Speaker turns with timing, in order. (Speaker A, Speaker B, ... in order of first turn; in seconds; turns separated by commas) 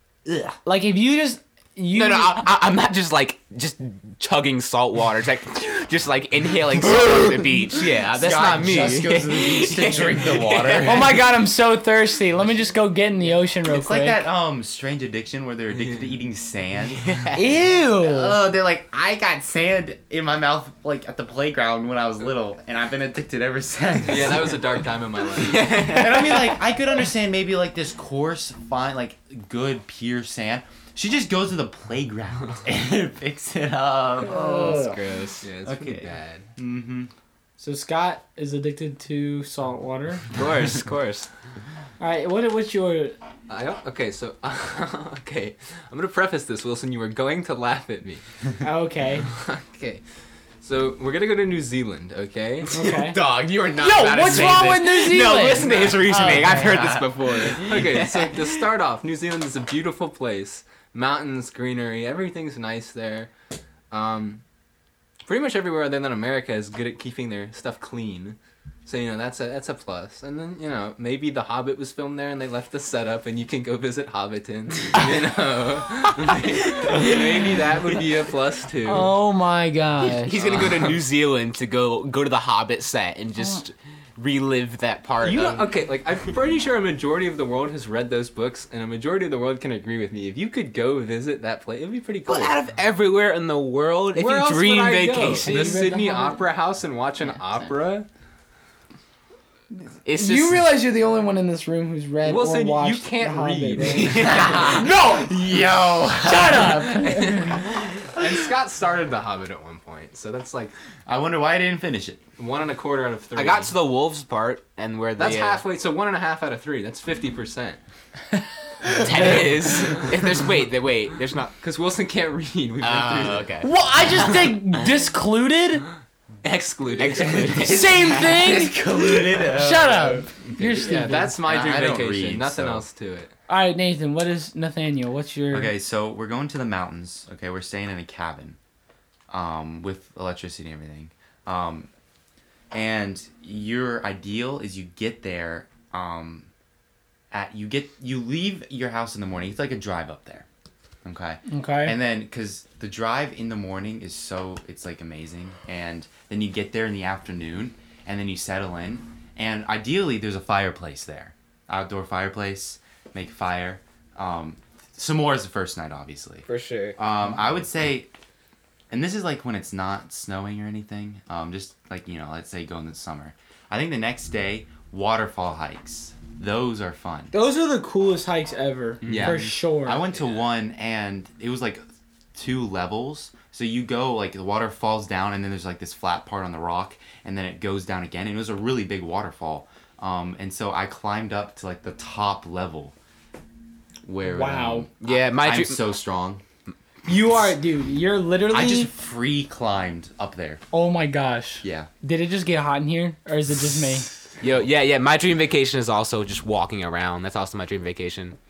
Speaker A: 0.2-0.6, Speaker B: 0.6-2.4, Speaker C: 1.9-11.2, Speaker A: 6.8-11.2, Speaker B: 10.8-14.2, Speaker A: 13.6-17.2, Speaker D: 15.7-16.2, Speaker C: 17.0-17.5, Speaker B: 17.3-18.4, Speaker A: 18.0-24.7, Speaker D: 24.0-25.7, Speaker C: 25.4-26.5, Speaker A: 25.7-34.8, Speaker B: 34.2-35.0, Speaker C: 34.2-35.4, Speaker D: 35.4-36.5, Speaker A: 35.6-37.1, Speaker B: 37.6-40.3, Speaker C: 40.3-41.3, Speaker B: 42.0-43.1, Speaker D: 43.5-48.2, Speaker B: 48.6-49.3, Speaker D: 49.2-50.0, Speaker D: 50.6-52.7, Speaker C: 52.7-58.6, Speaker B: 52.7-53.2, Speaker B: 53.8-56.9, Speaker D: 55.4-56.5, Speaker A: 56.6-57.1, Speaker D: 57.4-63.3, Speaker D: 63.9-64.4, Speaker D: 65.2-79.1, Speaker B: 78.8-80.3, Speaker C: 80.0-85.7, Speaker D: 80.4-81.0, Speaker D: 85.2-92.5, Speaker C: 92.2-95.8, Speaker B: 94.2-96.4, Speaker D: 95.2-98.1, Speaker C: 100.0-100.6, Speaker B: 100.1-105.3, Speaker D: 102.2-104.8, Speaker C: 103.8-104.8, Speaker A: 104.2-107.2, Speaker B: 106.2-107.6, Speaker D: 107.0-110.7, Speaker A: 111.0-112.2, Speaker D: 112.4-113.7, Speaker C: 113.3-115.6, Speaker D: 115.2-117.8, Speaker C: 119.0-121.5, Speaker B: 119.1-119.5, Speaker D: 121.6-123.5, Speaker C: 122.8-124.7, Speaker B: 123.6-125.8, Speaker D: 126.4-128.2, Speaker C: 127.0-128.7, Speaker B: 127.5-131.3, Speaker A: 128.3-130.6, Speaker D: 130.5-133.3, Speaker A: 131.1-132.8, Speaker B: 133.5-135.7, Speaker A: 135.5-138.6, Speaker A: 139.3-141.9, Speaker A: 142.7-146.5, Speaker A: 147.3-150.4, Speaker A: 151.0-168.1, Speaker B: 151.5-151.9, Speaker C: 166.5-167.0, Speaker A: 168.9-177.3, Speaker B: 177.3-180.0, Speaker A: 179.0-192.9, Speaker C: 179.0-179.4, Speaker A: 194.0-196.4, Speaker B: 194.2-194.9, Speaker C: 195.0-195.8, Speaker B: 197.1-198.9, Speaker A: 198.5-200.6, Speaker B: 200.7-204.1, Speaker A: 201.6-201.9, Speaker C: 204.4-208.4